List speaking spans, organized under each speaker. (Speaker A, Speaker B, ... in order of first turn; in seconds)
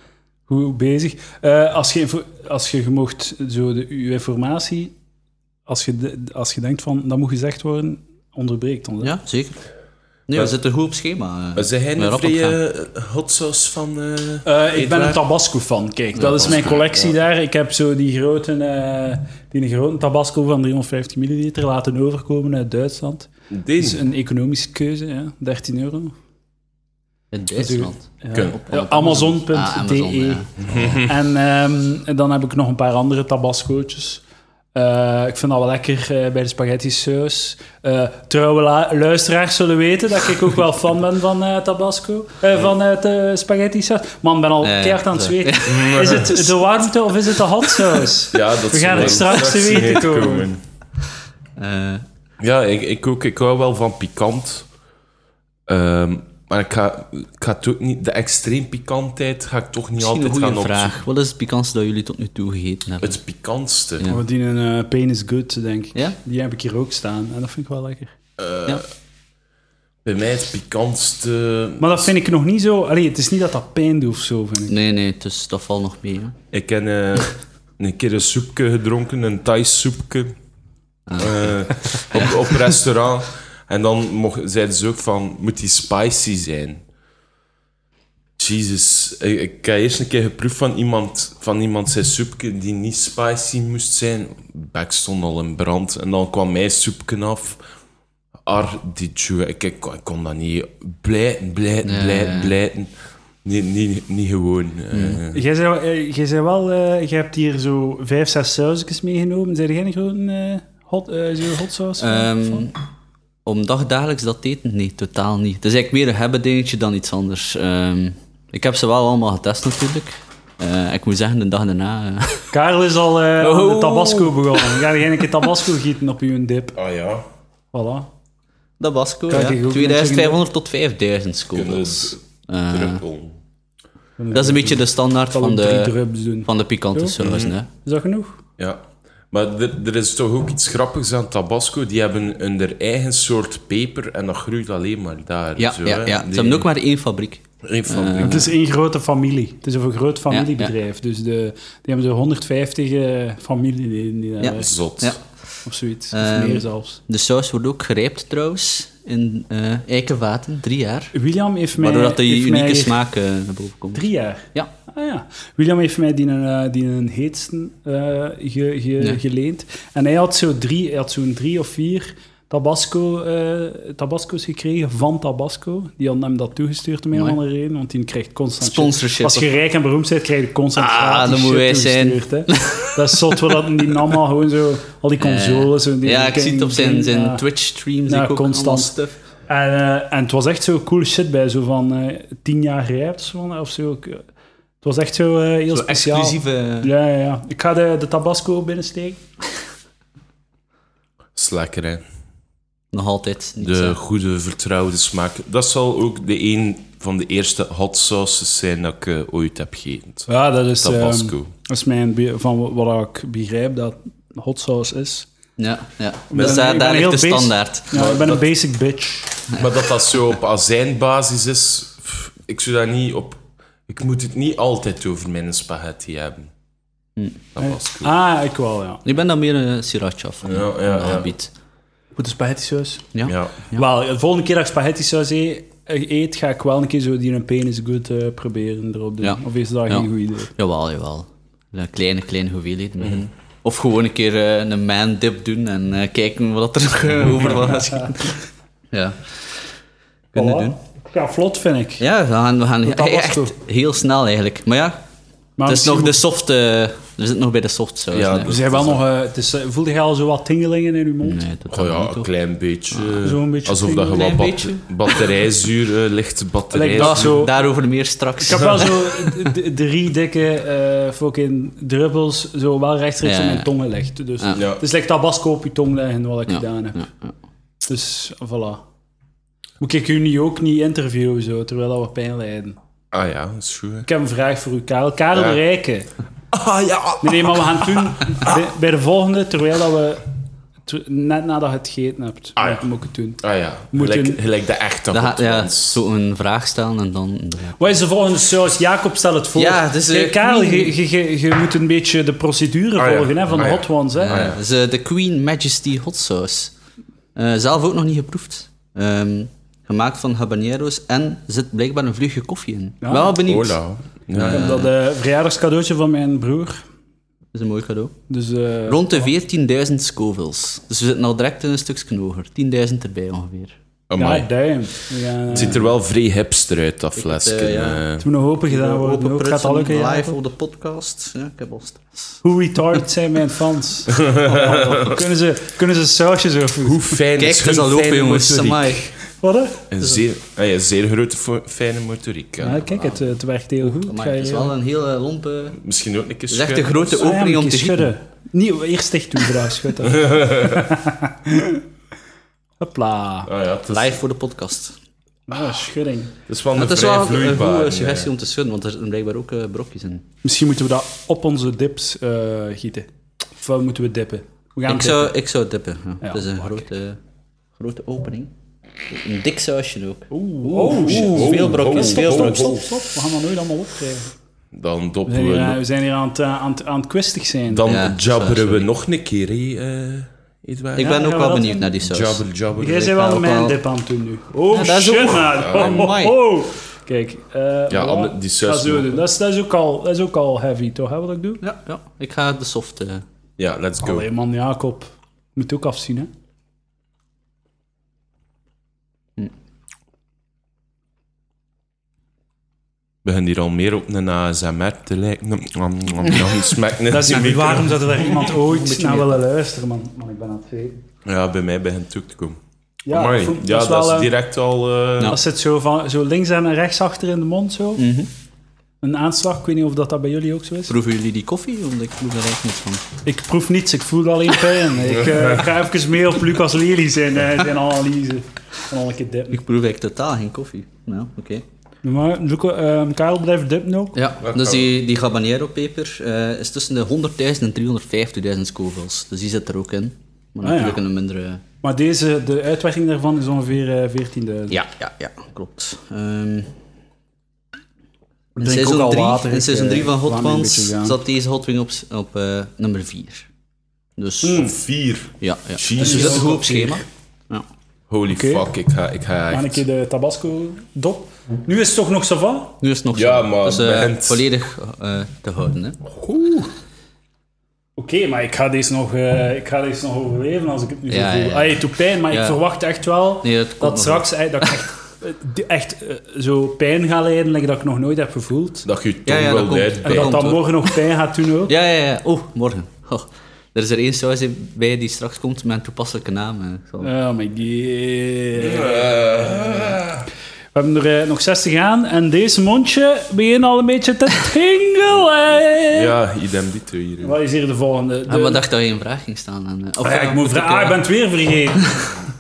Speaker A: 0.5-4.9, 5.7-9.1, 14.4-26.1, 27.6-30.5, 31.0-34.2, 34.8-50.5, 64.1-68.2, 71.8-74.7, 105.3-112.7, 122.5-126.8, 127.7-128.1, 129.3-130.4, 134.2-137.2, 137.8-138.4, 148.2-154.7, 155.7-157.0, 161.1-163.0, 163.9-187.4, 188.1-188.9, 189.5-194.2, 194.8-199.2, 210.3-215.3, 216.3-219.4, 227.6-229.0, 232.2-233.0, 233.7-240.5, 250.3-252.0, 252.8-253.6, 255.6-256.2, 258.5-261.4, 263.2-264.3, 266.7-267.5, 268.4-277.1, 277.8-278.8, 279.8-282.8, 284.1-286.1, 287.2-290.2, 290.9-294.4, 297.8-304.4, 313.0-313.4, 314.5-316.8, 318.3-319.3, 324.2-325.9, 328.2-330.4, 332.4-337.2, 339.4-339.9, 342.6-344.8, 347.1-351.8, 352.8-353.5, 355.5-356.4, 360.4-365.3, 366.2-366.8, 370.3-374.3, 375.3-377.9, 381.0-381.9, 382.8-391.6, 394.0-396.3, 407.1-411.0, 413.1-414.3, 415.3-418.1, 419.0-420.9, 423.2-429.6, 432.0-434.2, 440.6-441.0, 441.8-444.8, 448.6-451.2, 454.4-454.8, 456.0-457.0, 458.3-458.6, 459.5-462.8, 466.2-466.7, 468.0-478.9, 480.0-481.7, 487.0-490.0, 490.7-496.1, 497.2-498.6, 500.0-502.1
Speaker B: 9.0-9.6, 10.3-12.6, 16.2-16.7, 27.3-30.9, 44.6-46.5, 47.2-48.1, 48.9-49.6, 51.6-52.0, 60.0-63.2, 74.7-76.3, 81.1-82.5, 101.8-102.5, 104.9-105.2, 112.0-112.7, 113.5-122.5, 123.4-124.9, 128.8-133.0, 134.3-137.7, 145.6-148.4, 150.3-150.7, 154.4-155.2, 156.1-161.1, 161.8-164.7, 178.6-179.5, 180.8-183.4, 185.2-189.2, 195.7-196.9, 202.9-204.0, 215.6-217.9, 229.1-231.5, 233.1-233.8, 239.2-249.4, 250.3-250.8, 252.0-255.0, 255.7-258.5, 261.2-262.3, 262.9-263.3, 264.1-265.2, 267.0-269.0, 273.2-273.7, 276.5-277.3, 295.1-298.0, 299.6-300.9, 304.2-306.7, 307.4-313.8, 314.3-314.9, 317.5-318.2, 318.9-323.7, 327.2-328.1, 328.6-332.4, 337.4-339.1, 342.8-345.8, 346.5-348.1, 353.9-355.0, 356.8-360.2, 364.9-367.2, 367.8-368.5, 369.1-372.9, 377.9-378.9, 381.0-382.4, 383.0-383.8, 384.7-386.4, 391.6-393.2, 408.6-409.4, 418.0-418.3, 420.9-423.1, 429.5-431.6, 434.1-441.6, 444.7-446.7, 448.6-453.5, 454.2-454.7, 455.4-457.6, 462.8-466.0, 471.1-472.6, 473.4-474.8, 479.3-481.0, 481.7-487.1, 498.3-501.1
Speaker C: 11.6-15.2, 16.2-17.1, 23.5-24.0, 30.6-31.1, 45.7-46.4, 48.3-50.6, 52.4-54.7, 55.7-61.0, 63.0-64.1, 68.4-68.8, 70.0-72.1, 76.5-80.3, 81.2-86.8, 88.4-97.6, 98.5-102.9, 103.4-105.4, 126.8-127.2, 131.5-133.4, 137.2-137.6, 138.6-146.7, 147.6-148.5, 154.6-155.2, 201.3-202.0, 203.6-210.3, 210.8-211.5, 217.9-218.4, 219.5-226.5, 227.6-228.2, 230.4-231.3, 233.2-233.5, 258.1-259.0, 261.7-267.5, 274.5-274.8, 283.1-284.1, 285.3-285.6, 286.5-288.5, 292.6-292.9, 293.4-296.0, 303.0-304.6, 313.4-314.8, 324.1-324.5, 325.5-328.3, 334.1-335.2, 336.8-339.0, 339.9-342.9, 345.8-347.2, 350.0-350.9, 353.5-354.2, 356.5-358.3, 370.8-372.8, 374.7-375.8, 377.7-381.2, 382.1-383.1, 385.6-386.1, 387.9-389.2, 393.6-394.3, 403.2-408.5, 411.2-412.6, 413.1-415.4, 434.4-434.9, 454.6-456.6, 458.1-459.8, 463.1-464.4, 478.9-480.4, 488.6-490.3, 495.9-497.4